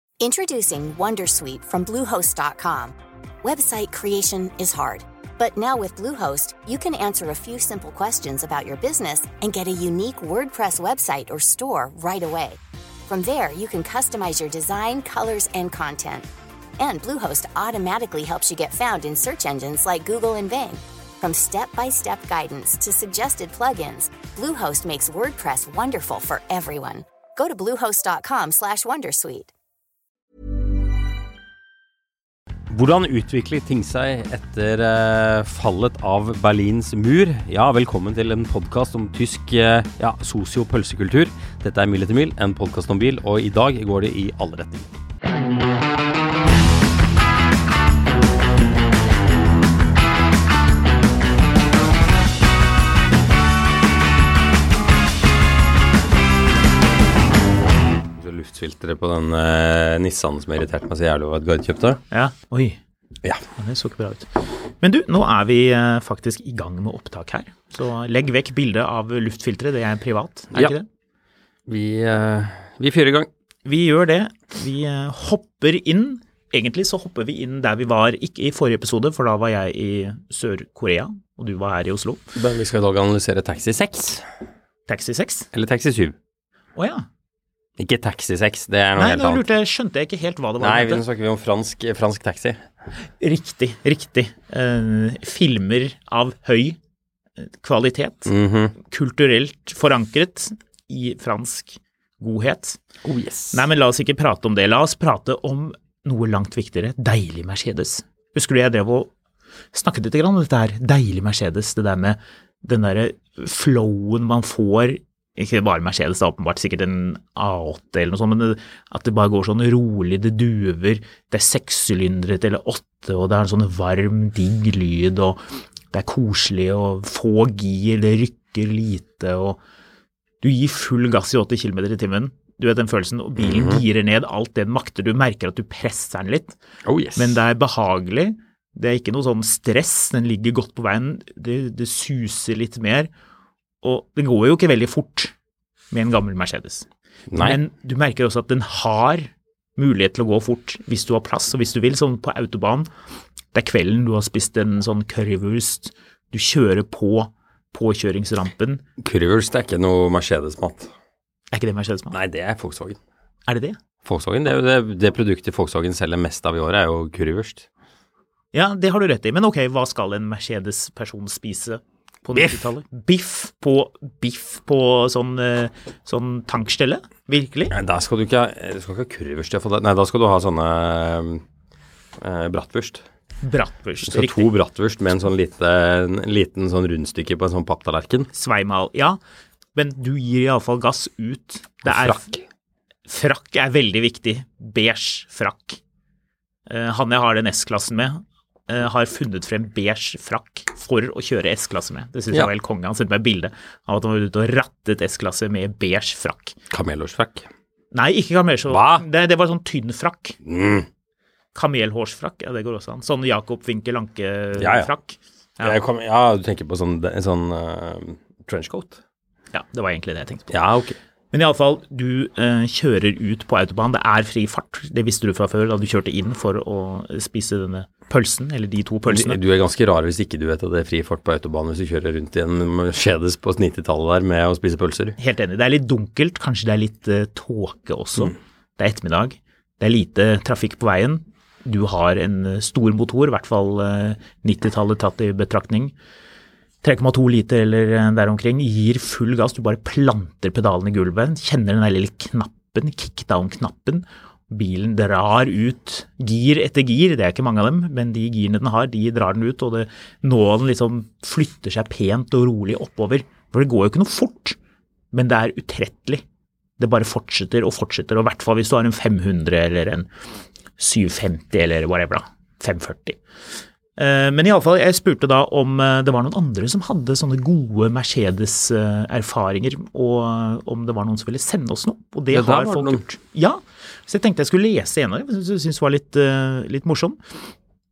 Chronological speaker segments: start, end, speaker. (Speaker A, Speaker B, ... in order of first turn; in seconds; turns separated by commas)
Speaker A: 0.2-16.3, Speaker A: 16.8-29.5, Speaker B: 32.7-44.9, Speaker B: 58.2-62.0, Speaker C: 62.1-62.8, Speaker C: 63.6-70.8, Speaker B: 71.7-73.3, Speaker C: 73.6-82.2, Speaker B: 82.3-84.2, Speaker C: 84.9-85.5, Speaker B: 85.5-86.1, Speaker C: 86.8-87.0, Speaker B: 87.8-89.5, Speaker C: 89.0-91.0, Speaker B: 90.6-92.6, Speaker C: 93.2-96.8, Speaker C: 97.4-102.8, Speaker B: 98.3-98.8, Speaker B: 103.0-103.6, Speaker C: 103.5-109.1, Speaker C: 109.7-129.6, Speaker C: 130.4-136.6, Speaker B: 133.4-133.8, Speaker B: 136.8-137.4, Speaker C: 137.2-143.1, Speaker C: 143.8-145.3, Speaker C: 145.9-152.9, Speaker B: 147.3-147.6, Speaker C: 153.5-158.8, Speaker B: 159.0-160.9, Speaker C: 161.5-162.1, Speaker B: 162.1-163.0, Speaker C: 163.5-163.8, Speaker B: 164.0-167.7, Speaker C: 168.5-177.7, Speaker B: 172.3-172.7, Speaker B: 177.7-181.4, Speaker B: 182.2-183.0, Speaker C: 183.4-184.5, Speaker B: 184.1-188.3, Speaker C: 188.3-189.2, Speaker C: 189.7-192.3, Speaker B: 191.8-192.4, Speaker C: 193.1-195.8, Speaker C: 196.7-206.5, Speaker B: 206.7-207.5, Speaker C: 207.9-210.3, Speaker B: 208.7-209.0, Speaker B: 210.4-210.9, Speaker C: 211.5-215.8, Speaker B: 214.6-214.9, Speaker B: 215.6-219.0, Speaker C: 219.5-220.5, Speaker B: 220.5-221.0, Speaker C: 221.3-229.4, Speaker B: 229.1-235.2, Speaker C: 235.2-245.9, Speaker C: 246.8-264.6, Speaker C: 265.1-266.2, Speaker C: 266.8-270.1, Speaker C: 270.8-273.2, Speaker C: 274.0-287.2, Speaker B: 282.3-283.0